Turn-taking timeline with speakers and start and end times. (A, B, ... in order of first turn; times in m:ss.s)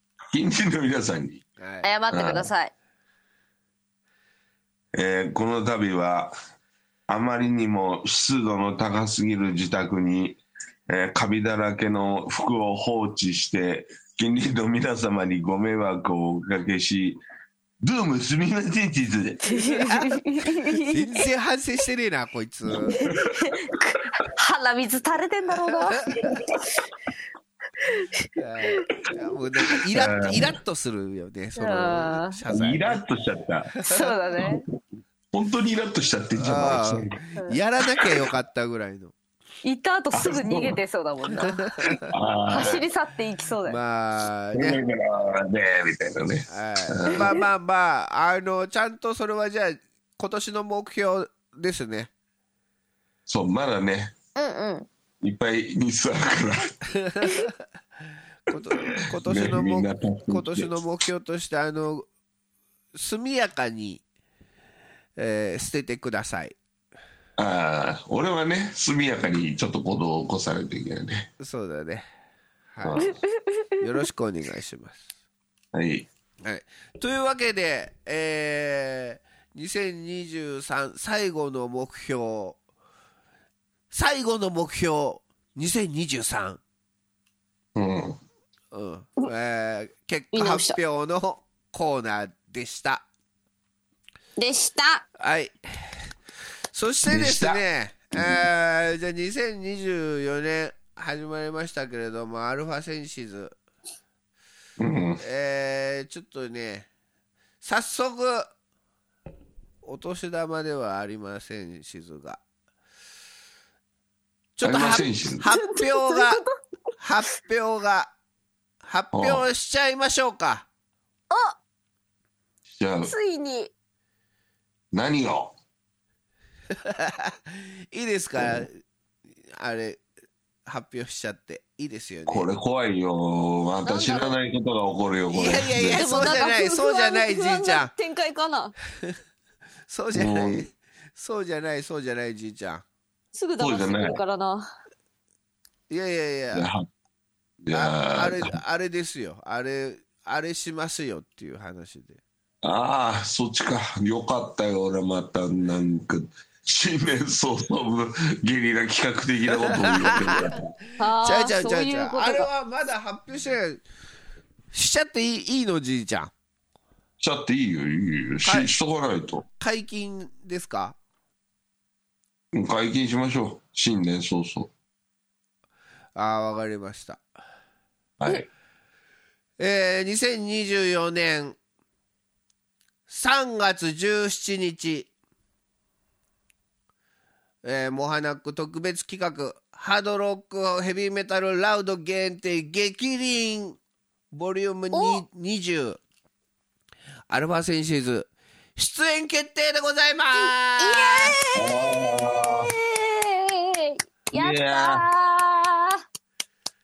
0:00.3-0:01.4 A
0:01.6-0:01.9 B
0:01.8-0:02.7 C
0:02.1-0:02.5 A
0:04.9-0:06.3 A
0:07.1-0:17.2 A
0:17.8-0:19.4 A
0:19.4-0:21.2 C
0:19.8-0:20.2 B
0:20.8-0:23.0 B
0:22.8-0:23.5 A
0:22.9-0:26.3 C
0:26.2-0:26.6 A
0:27.8-0:28.9 C
0:28.4-0:33.0 B
0:29.9-0:30.5 A
0:31.6-0:32.4 C
0:32.5-0:33.7 A
0:33.8-0:34.1 B
0:33.8-0:34.7 C
0:34.4-0:34.6 A
0:35.3-0:37.2 A
0:36.4-0:39.1 B
0:39.6-0:41.9 C
0:40.1-0:40.8 A
0:41.6-0:42.1 B
0:42.0-0:42.8 A
0:42.5-0:43.8 C
0:43.6-0:44.8 B
0:44.5-0:47.4 A
0:46.5-0:52.1 B
0:53.3-0:54.1 A
0:54.4-0:54.9 C
0:55.2-0:56.8 A
0:56.9-0:57.6 B
0:58.5-1:02.1 B
0:59.2-1:00.7 A
1:02.9-1:04.0 B
1:05.2-1:06.6 B
1:07.4-1:11.3 A
1:11.4-1:12.0 B
1:12.7-1:13.2 B
1:12.8-1:13.2 A
1:13.0-1:13.7 C
1:13.8-1:15.1 B
1:15.7-1:16.1 A
1:16.4-1:22.6 B
1:23.9-1:26.6 B
1:27.7-1:28.2 A
1:28.7-1:33.0 B
1:30.3-1:30.8 C
1:34.4-1:35.0 C
1:35.2-1:36.0 B
1:36.7-1:43.5 B
1:37.1-1:37.6 A
1:38.2-1:38.4 A
1:44.8-1:45.2 A
1:45.2-1:46.9 B
1:47.6-1:48.5 B
1:49.8-1:52.4 B
1:54.6-1:56.4 B
1:54.6-1:55.4 A
1:55.4-1:56.5 C
1:57.0-1:58.1 B
1:58.8-2:00.7 B
1:59.1-1:59.4 A
2:01.3-2:01.6 C
2:02.7-2:03.1 A
2:03.0-2:03.7 C
2:04.9-2:05.5 A
2:06.8-2:08.8 B
2:09.5-2:10.0 B
2:10.6-2:12.5 B
2:12.3-2:16.3 A
2:13.8-2:14.4 C
2:15.3-2:17.9 B
2:15.9-2:18.7 C
2:19.9-2:22.8 B
2:20.1-2:20.6 A
2:23.3-2:24.6 C
2:23.6-2:24.2 A
2:25.9-2:26.7 B
2:26.5-2:26.9 A
2:27.6-2:28.5 A
2:27.7-2:32.2 B
2:32.6-2:40.7 A
2:39.6-2:43.8 B
2:41.0-2:42.5 C
2:44.7-2:46.3 B
2:47.2-2:49.4 A
2:48.4-2:48.7 B
2:49.6-2:51.0 B
2:52.5-2:54.7 A
2:56.2-2:57.2 B
2:58.2-2:58.5 A
2:59.6-3:01.6 B
3:03.1-3:05.1 B
3:07.6-3:13.8 B
3:14.3-3:16.0 B
3:14.9-3:15.2 C
3:17.3-3:21.4 B
3:20.4-3:26.0 C
3:21.5-3:22.7 A
3:24.3-3:25.0 A